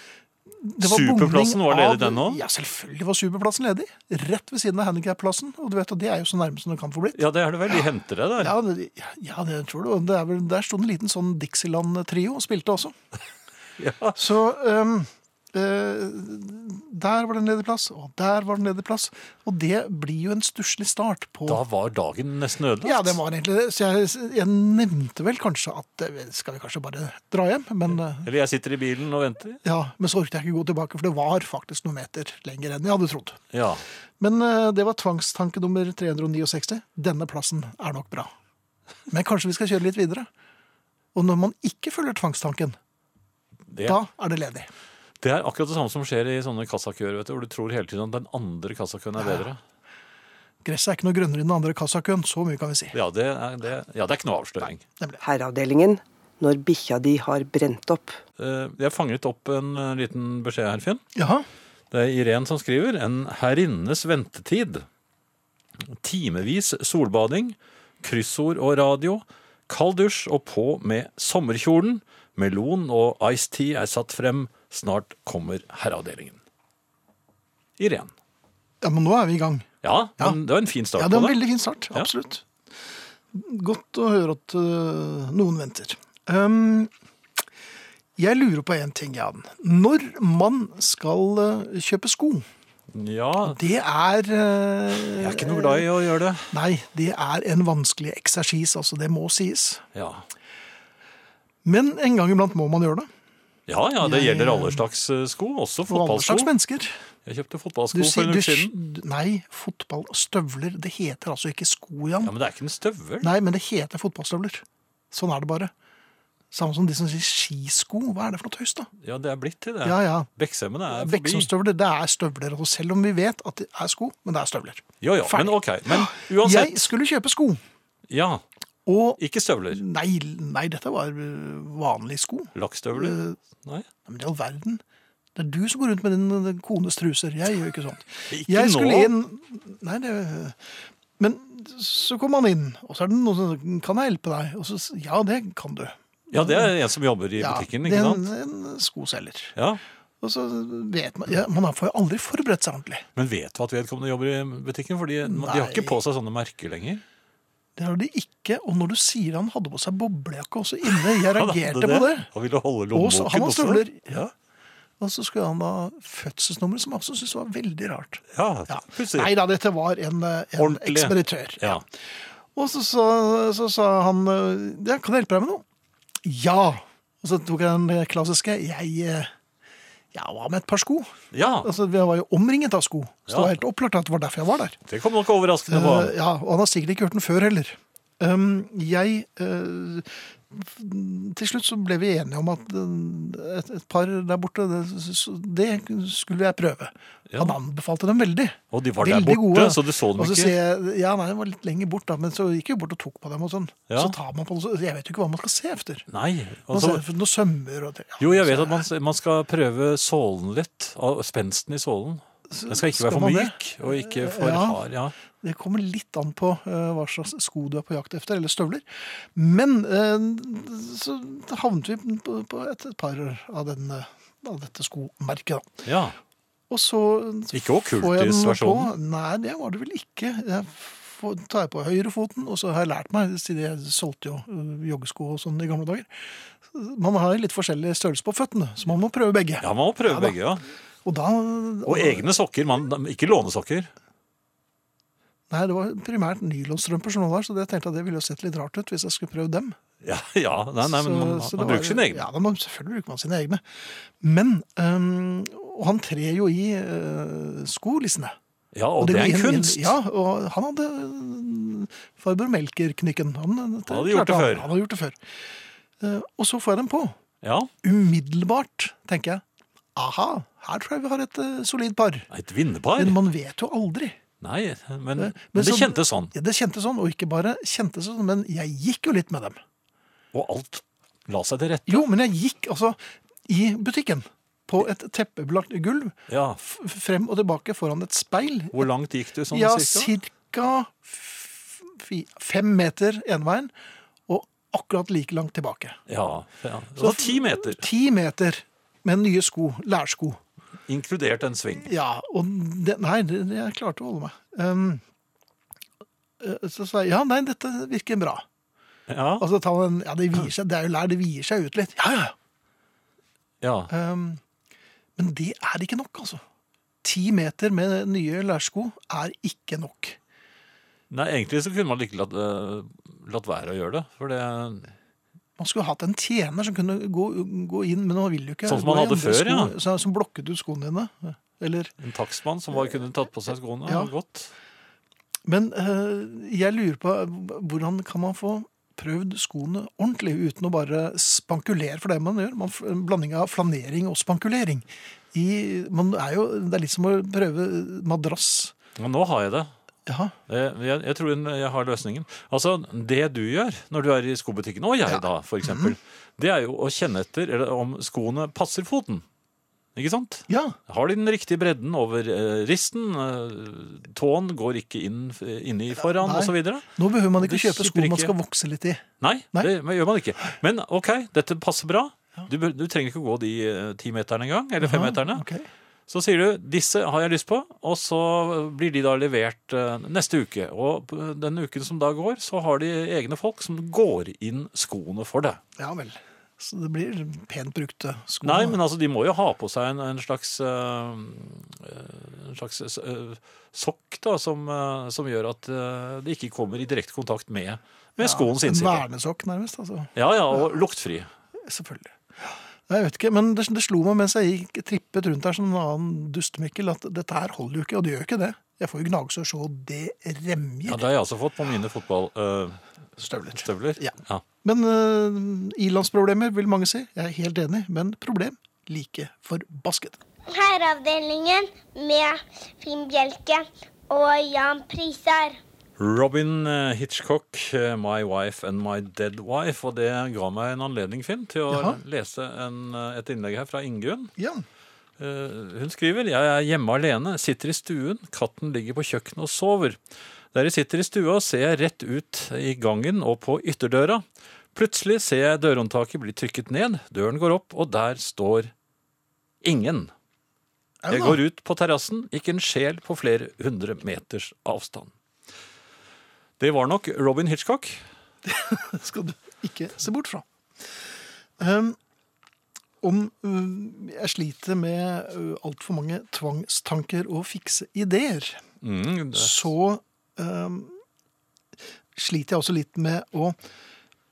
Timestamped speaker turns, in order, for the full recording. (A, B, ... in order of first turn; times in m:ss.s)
0:00.6-0:07.2 A
0:00.8-0:02.4 B
0:07.1-0:08.5 B
0:08.4-0:12.9 A
0:13.8-0:14.2 B
0:14.2-0:21.6 A
0:21.5-0:23.2 B
0:22.8-0:28.3 A
0:27.9-0:29.6 B
0:29.6-0:33.4 A
0:33.5-0:33.8 B
0:34.2-0:38.3 A
0:39.1-0:40.3 A
0:41.1-0:42.8 A
0:43.7-0:44.0 B
0:43.8-0:44.7 A
0:45.2-0:49.6 B
0:49.2-0:49.4 A
0:50.6-0:52.9 A
0:52.9-0:54.8 B
0:55.2-0:58.2 C
0:58.4-1:01.0 B
1:01.1-1:01.5 A
1:01.9-1:04.8 B
1:05.9-1:16.4 B
1:17.8-1:18.1 B
1:18.8-1:19.6 A
1:19.8-1:21.4 B
1:20.9-1:22.4 A
1:23.3-1:26.9 A
1:28.2-1:32.4 A
1:32.9-1:33.6 B
1:33.4-1:35.9 A
1:35.1-1:36.5 B
1:36.5-1:39.8 A
1:39.9-1:40.3 B
1:41.6-1:43.1 A
1:43.7-1:46.5 B
1:44.0-1:44.8 A
1:45.9-1:46.9 A
1:47.2-1:48.7 B
1:47.9-1:52.3 A
1:52.2-1:53.3 B
1:53.2-1:55.7 A
1:56.5-1:58.9 A
1:59.0-2:01.5 B
1:59.8-2:00.3 A
2:00.9-2:07.6 A
2:05.0-2:06.8 B
2:08.1-2:08.4 B
2:08.8-2:09.2 A
2:09.2-2:09.8 B
2:09.7-2:13.4 A
2:12.5-2:13.8 B
2:14.0-2:14.8 A
2:15.4-2:20.6 A
2:18.3-2:19.1 B
2:21.2-2:26.7 A
2:26.3-2:28.3 B
2:27.4-2:29.5 A
2:29.6-2:29.8 B
2:30.2-2:33.0 A
2:33.2-2:37.0 B
2:35.2-2:36.0 A
2:37.8-2:42.3 A
2:40.8-2:44.3 B
2:42.9-2:44.2 A
2:45.0-2:51.8 A
2:48.3-2:49.3 B
2:50.6-2:51.8 B
2:52.5-2:55.6 A
2:56.2-2:59.3 A
3:00.1-3:04.8 A
3:01.3-3:01.7 B
3:03.3-3:03.5 B
3:04.9-3:06.2 B
3:05.7-3:26.0 A
3:17.3-3:17.6 B
3:18.7-3:20.5 B
3:23.9-3:24.2 B
3:26.1-3:27.0 B
3:26.7-3:28.9 A
3:28.2-3:35.1 B
3:32.5-3:34.8 A
3:35.4-3:45.8 A
3:45.8-3:46.2 B
3:46.7-3:56.1 A
3:47.5-3:48.9 B
3:56.6-4:00.4 A
3:59.6-4:00.6 B
4:01.0-4:02.3 A
4:01.8-4:03.9 B
4:05.5-4:09.8 A
4:10.0-4:12.2 B
4:10.8-4:18.3 A
4:18.7-4:20.0 B
4:19.0-4:25.2 A
4:23.9-4:24.7 B
4:26.0-4:27.1 A
4:27.4-4:27.7 B
4:27.8-4:29.4 A
4:30.0-4:32.3 A
4:32.3-4:33.2 B
4:33.0-4:34.2 A
4:34.4-4:36.3 B
4:35.2-4:39.6 A
4:40.3-4:42.1 B
4:41.9-4:48.9 A
4:46.3-4:46.6 B
4:48.7-4:50.1 B
4:49.5-4:53.7 A
4:54.3-4:56.0 A
4:56.1-4:57.8 B
4:57.0-5:00.4 A
5:00.9-5:01.9 B
5:01.8-5:05.0 A
5:06.4-5:08.4 A
5:09.1-5:09.4 B
5:09.4-5:12.3 A
5:13.6-5:13.9 B
5:13.9-5:14.4 A
5:15.2-5:16.4 A
5:17.0-5:20.2 A
5:21.1-5:24.9 B
5:25.6-5:31.9 A
5:28.6-5:29.7 B
5:32.0-5:34.5 B
5:33.8-5:34.1 A
5:35.4-5:48.7 A
5:49.0-5:49.7 B
5:50.1-5:50.3 A
5:50.5-5:59.2 B
5:55.1-5:55.9 A
5:59.9-6:08.3 B
6:00.5-6:00.8 A
6:06.1-6:09.7 A
6:09.2-6:15.4 B
6:14.8-6:15.7 A
6:16.1-6:25.6 B
6:25.8-6:28.8 A
6:28.4-6:39.0 B
6:38.2-6:40.7 A
6:40.1-6:41.3 B
6:41.6-6:51.0 A
6:50.8-6:52.8 B
6:53.2-7:00.2 A
6:53.5-6:54.4 B
7:00.5-7:05.6 D
7:06.0-7:14.3 B
7:11.7-7:12.0 A
7:14.4-7:14.6 A
7:15.2-7:20.0 B
7:20.5-7:28.7 B
7:29.6-7:30.1 B
7:31.0-7:31.4 A
7:31.1-7:35.1 B
7:36.6-7:38.0 B
7:38.4-7:40.4 A
7:41.6-7:42.0 A
7:43.0-7:48.6 A
7:48.8-7:49.7 B
7:49.3-7:51.0 A
7:52.2-7:53.6 A